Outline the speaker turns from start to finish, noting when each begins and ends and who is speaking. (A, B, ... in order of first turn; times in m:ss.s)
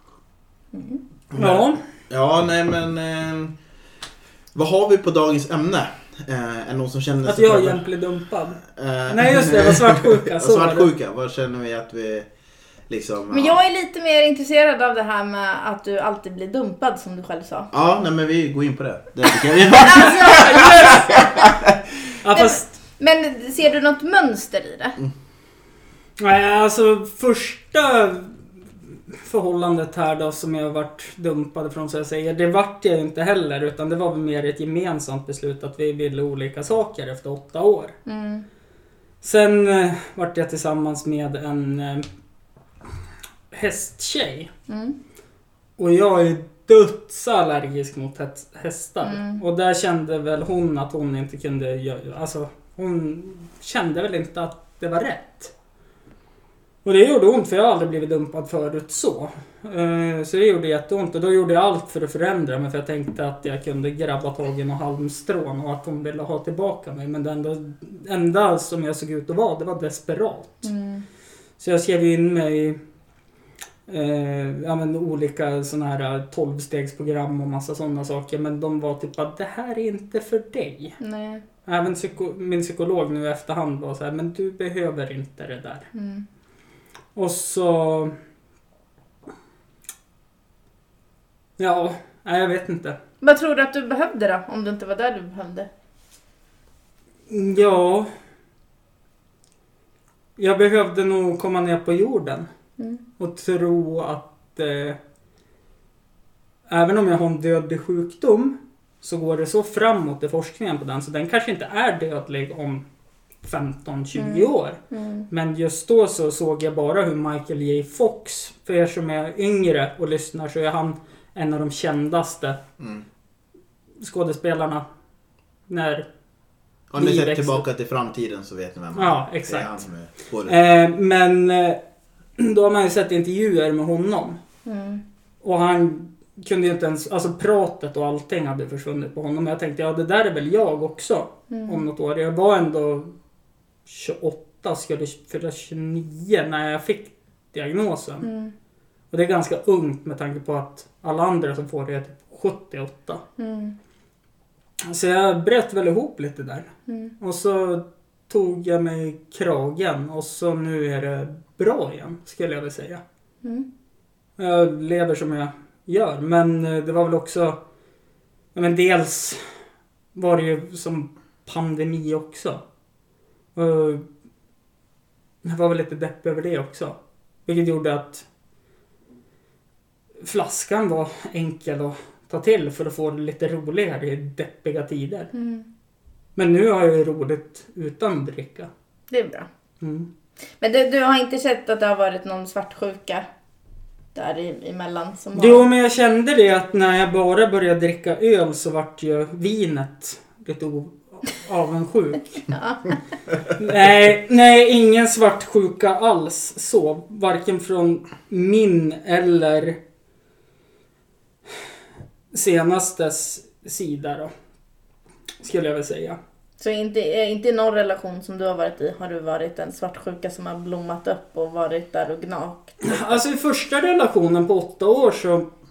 0:00.7-0:01.0 A
0:01.3-0:03.6 B
0:01.4-0:01.8 C
0:04.6-0:07.8 B
0:07.2-0:10.9 C
0:08.6-0:12.3 B
0:12.9-0:13.6 B
0:13.3-0:17.7 A
0:17.7-0:21.8 B
0:19.8-0:21.5 A
0:20.4-0:21.0 C
0:22.2-0:22.7 C
0:22.3-0:25.0 A
0:26.2-0:28.4 C
0:29.1-0:38.0 C
0:38.1-0:38.5 A
0:39.2-0:42.1 C
0:43.5-0:44.5 C
0:44.7-0:45.0 A
0:45.8-0:55.5 C
0:49.0-0:49.4 A
0:56.8-1:10.7 C
1:10.6-1:11.0 A
1:11.6-1:12.8 C
1:13.9-1:21.0 C
1:21.0-1:21.4 A
1:21.7-1:25.9 C
1:25.9-1:26.2 A
1:27.2-1:28.2 C
1:31.6-1:33.0 C
1:33.2-1:35.7 A
1:37.3-1:38.1 C
1:40.4-1:42.5 C
1:42.8-1:43.0 A
1:43.2-1:45.0 C
1:46.7-1:52.8 C
1:53.4-2:02.6 C
1:54.2-1:55.3 A
2:02.8-2:03.0 B
2:04.0-2:04.8 C
2:05.7-2:06.1 C
2:06.9-2:10.6 B
2:07.0-2:07.6 C
2:09.0-2:09.8 C
2:10.4-2:11.8 C
2:12.4-2:14.4 C
2:14.7-2:15.0 A
2:15.4-2:23.1 C
2:21.5-2:21.8 A
2:23.9-2:28.3 C
2:28.2-2:28.5 A
2:29.1-2:33.2 C
2:33.4-2:33.8 A
2:34.8-2:43.0 C
2:36.9-2:37.1 A
2:44.4-2:47.6 C
2:48.6-2:49.4 C
2:50.2-2:52.6 C
2:53.6-2:54.1 C
2:55.4-2:58.2 C
3:00.2-3:05.3 C
3:05.3-3:05.7 A
3:06.4-3:08.7 C
3:09.1-3:09.5 A
3:09.8-3:10.1 C
3:10.6-3:13.3 A
3:14.2-3:15.7 A
3:15.4-3:22.5 C
3:22.5-3:23.0 A
3:23.6-3:29.8 C
3:32.3-3:34.3 C
3:35.4-3:36.2 C
3:36.6-3:43.2 A
3:42.8-3:45.5 C